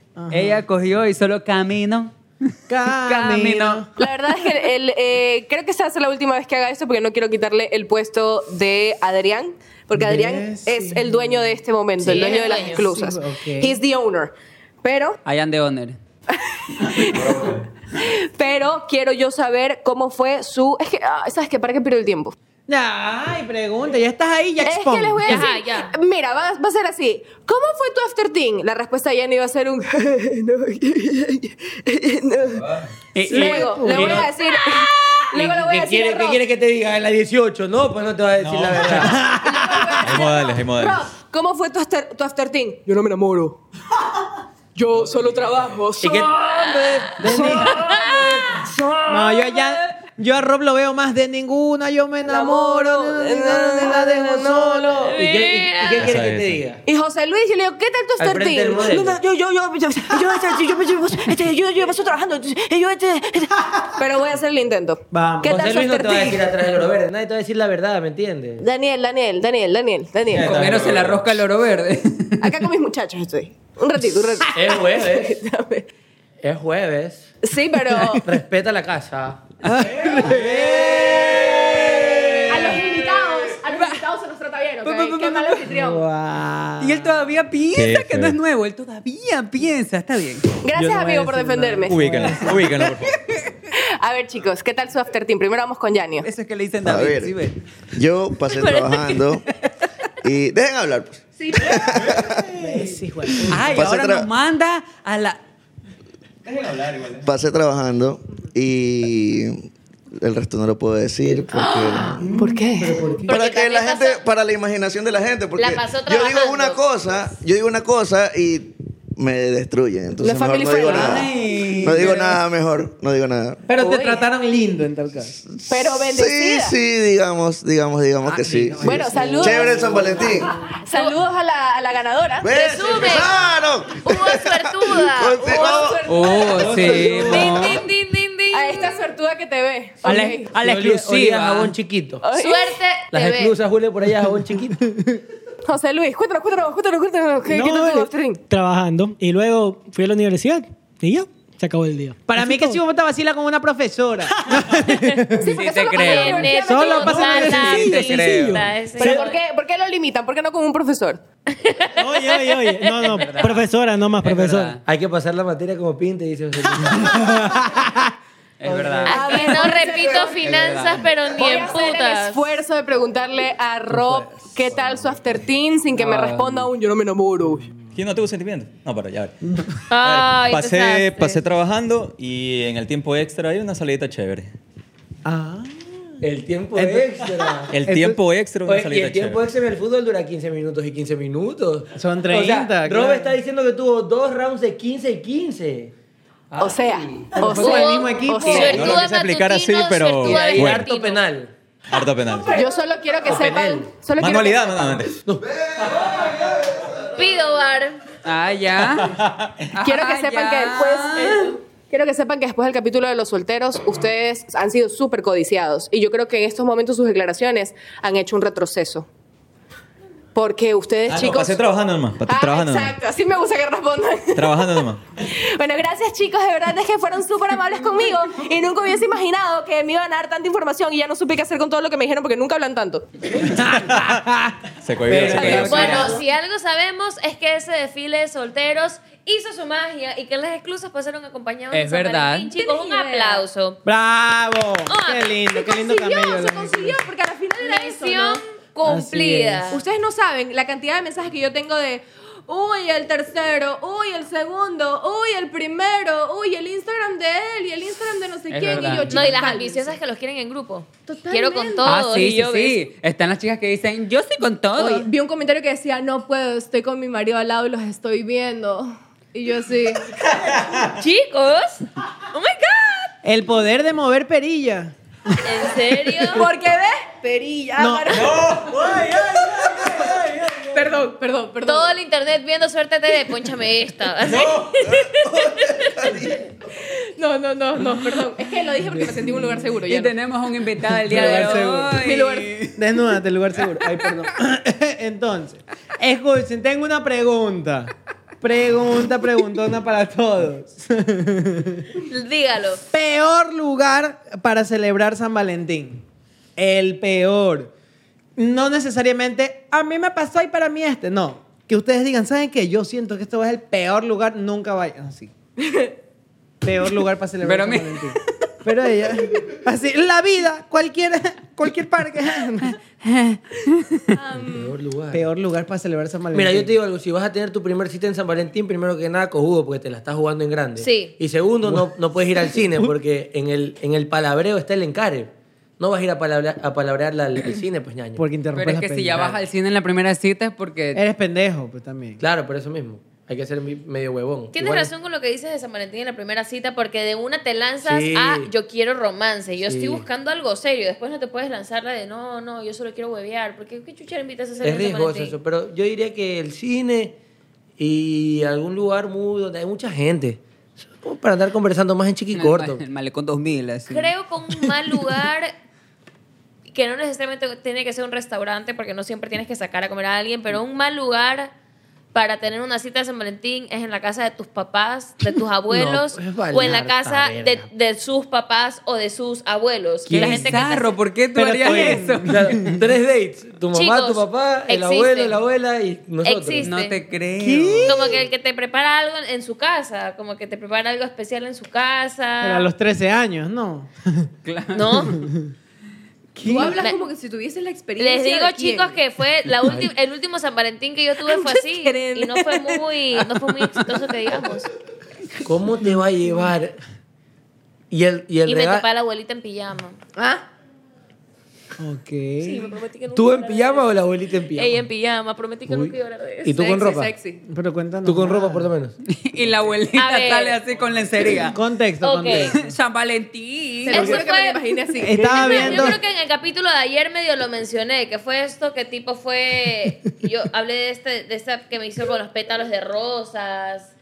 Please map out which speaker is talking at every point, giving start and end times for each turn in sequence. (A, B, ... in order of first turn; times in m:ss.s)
0:00.2-0:00.6 A
0:00.3-0:02.1 B
0:02.7-0:03.9 A
0:02.9-0:03.8 B
0:04.0-0:15.2 C
0:09.9-0:13.8 A
0:12.0-0:12.8 D
0:15.2-0:16.0 B
0:16.3-0:22.3 C
0:17.1-0:17.6 E
0:22.7-0:25.5 A
0:24.6-0:32.8 C
0:25.2-0:25.9 D
0:33.1-0:34.8 B
0:33.3-0:36.4 C
0:33.3-0:34.3 A
0:35.3-0:39.2 F
0:38.4-0:39.3 E
0:39.0-0:40.0 A
0:39.3-0:43.6 C
0:40.0-0:41.0 E
0:44.7-0:46.4 C
0:44.9-0:45.9 E
0:46.0-0:47.5 F
0:46.8-0:47.2 D
0:47.2-0:47.8 A
0:47.2-0:49.6 C
0:47.7-0:48.4 D
0:49.1-0:55.2 A
0:52.2-0:55.1 C
0:55.0-0:56.1 D
0:55.1-0:56.8 F
0:56.0-0:56.6 E
0:56.8-1:06.4 C
0:58.2-0:59.2 F
1:05.1-1:05.7 A
1:05.4-1:08.6 F
1:08.6-1:10.6 C
1:10.3-1:11.4 E
1:10.4-1:12.6 B
1:12.4-1:15.9 C
1:14.5-1:15.4 F
1:16.4-1:17.3 F
1:17.4-1:18.2 C
1:18.2-1:19.4 F
1:19.6-1:22.8 A
1:19.6-1:20.5 B
1:19.8-1:21.9 E
1:22.4-1:26.0 C
1:23.6-1:24.0 B
1:24.8-1:25.8 B
1:25.7-1:27.2 A
1:26.8-1:30.5 B
1:27.7-1:28.4 E
1:30.6-1:32.0 C
1:30.7-1:33.2 E
1:31.9-1:32.6 A
1:33.7-1:36.3 C
1:36.2-1:37.6 B
1:36.8-1:37.4 G
1:38.0-1:39.4 G
1:40.2-1:42.6 G
1:41.4-1:41.8 C
1:41.9-1:42.2 E
1:42.5-1:43.9 A
1:43.5-1:44.3 G
1:43.5-1:45.4 B
1:46.4-1:47.3 E
1:47.2-1:52.4 G
1:51.5-1:53.2 C
1:52.8-1:53.3 A
1:53.2-2:03.6 G
1:53.3-1:54.2 D
1:55.6-1:56.8 D
2:00.2-2:01.2 C
2:00.7-2:02.4 B
2:03.7-2:05.3 A
2:03.8-2:04.2 C
2:05.4-2:10.5 G
2:05.7-2:06.7 C
2:08.2-2:10.5 A
2:08.8-2:12.5 C
2:12.4-2:16.1 G
2:12.5-2:15.9 D
2:15.4-2:17.4 C
2:16.1-2:17.8 B
2:16.6-2:17.6 F
2:16.6-2:16.9 A
2:17.3-2:19.1 D
2:18.5-2:20.5 C
2:20.0-2:21.7 B
2:20.1-2:22.2 F
2:22.2-2:22.8 C
2:22.3-2:23.6 D
2:23.1-2:24.8 F
2:25.6-2:28.4 C
2:27.5-2:32.8 H
2:32.3-2:35.5 A
2:34.9-2:35.2 D
2:35.4-2:37.4 C
2:35.5-2:36.6 B
2:35.9-2:39.4 D
2:36.6-2:38.5 A
2:37.3-2:39.2 H
2:37.9-2:38.6 B
2:39.0-2:41.2 C
2:41.5-2:43.4 D
2:42.0-2:43.4 A
2:42.0-2:44.8 H
2:43.1-2:43.6 B
2:44.2-2:44.8 B
2:44.8-2:47.4 F
2:46.9-2:48.1 A
2:48.6-2:49.6 B
2:48.6-2:49.1 A
2:49.0-2:52.5 D
2:49.1-2:50.6 C
2:50.4-2:51.1 B
2:51.3-2:57.7 C
2:53.9-2:54.3 A
2:55.9-2:56.7 B
2:57.9-3:04.5 E
2:59.9-3:01.4 D
3:05.2-3:06.2 A
3:06.2-3:07.7 F
3:06.7-3:07.2 A
3:07.7-3:09.4 E
3:07.8-3:08.2 A
3:08.6-3:15.9 F
3:11.9-3:13.4 A
3:16.6-3:18.8 C
3:17.4-3:19.0 A
3:17.6-3:21.2 D
3:18.6-3:20.9 E
3:20.2-3:21.5 F
3:21.9-3:22.6 E
3:22.5-3:25.0 C
3:23.2-3:23.9 F
3:24.1-3:25.2 E
3:25.4-3:27.3 G
3:27.2-3:28.0 D
3:28.2-3:31.5 B
3:29.0-3:29.6 E
3:29.8-3:39.1 C
3:31.2-3:31.5 D
3:40.3-3:41.6 C
3:41.1-3:43.0 E
3:42.2-3:53.1 C
3:44.3-3:45.0 E
3:53.4-3:54.5 A
3:53.9-3:54.2 E
3:54.8-3:56.1 E
3:55.1-3:55.9 F
3:55.1-3:56.1 B
3:55.4-3:56.1 C
3:55.6-4:03.8 D
4:01.7-4:02.5 B
4:02.6-4:03.4 C
4:03.8-4:07.0 A
4:04.9-4:05.4 D
4:05.5-4:08.4 C
4:07.6-4:09.8 D
4:08.8-4:09.7 A
4:09.7-4:20.0 C
4:18.5-4:19.3 B
4:18.8-4:22.8 D
4:21.1-4:22.0 C
4:21.8-4:25.1 B
4:24.8-4:30.2 C
4:30.2-4:31.0 E
4:31.0-4:33.1 D
4:33.2-4:34.9 A
4:35.4-4:36.5 D
4:36.2-4:38.5 C
4:37.8-4:38.3 A
4:38.1-4:41.0 E
4:40.7-4:41.9 C
4:41.6-4:45.7 D
4:44.2-4:44.9 E
4:45.5-4:46.3 G
4:46.8-4:50.1 C
4:49.8-4:52.7 B
4:51.0-4:52.0 A
4:51.1-4:52.5 C
4:52.8-5:01.9 A
5:02.0-5:02.8 D
5:02.9-5:06.0 A
5:06.6-5:07.7 A
5:08.4-5:15.3 A
5:15.6-5:15.9 C
5:16.6-5:22.8 A
5:17.4-5:18.2 B
5:23.0-5:24.0 B
5:24.1-5:24.7 C
5:24.4-5:25.3 F
5:25.1-5:26.7 A
5:26.3-5:38.2 F
5:30.8-5:31.1 D
5:38.2-5:39.4 A
5:38.5-5:41.0 B
5:40.9-5:42.2 A
5:42.2-5:44.9 F
5:44.5-5:55.3 D
5:47.8-5:48.5 F
5:49.6-5:50.0 F
5:54.6-5:57.2 F
5:57.8-6:02.8 F
6:02.3-6:04.1 B
6:03.9-6:05.5 D
6:06.7-6:11.5 D
6:12.1-6:20.9 D
6:15.7-6:17.7 F
6:20.0-6:20.5 A
6:20.1-6:22.7 B
6:21.3-6:22.8 A
6:21.6-6:26.7 F
6:23.7-6:25.4 D
6:26.2-6:27.0 D
6:26.6-6:28.0 B
6:27.4-6:28.2 A
6:27.8-6:32.7 D
6:32.4-6:34.3 A
6:34.4-6:35.1 B
6:34.7-6:35.2 D
6:35.1-6:35.5 A
6:36.4-6:36.7 A
6:36.4-6:39.0 C
6:36.6-6:37.0 D
6:38.0-6:44.7 D
6:39.6-6:39.9 F
6:41.2-6:43.5 C
6:45.4-6:46.8 F
6:47.9-6:48.8 F
6:48.4-6:50.0 D
6:50.2-6:50.4 C
6:51.8-6:52.8 A
6:52.4-6:53.9 D
6:53.1-6:54.9 F
6:54.5-6:56.6 D
6:55.7-6:57.1 F
6:56.5-6:57.4 C
6:57.5-6:58.7 A
6:58.0-6:58.9 F
6:59.1-7:01.6 B
6:59.9-7:00.6 D
7:01.5-7:02.6 A
7:02.0-7:02.5 D
7:02.3-7:04.2 B
7:03.8-7:06.0 C
7:03.9-7:04.6 D
7:05.0-7:06.0 A
7:05.2-7:13.9 D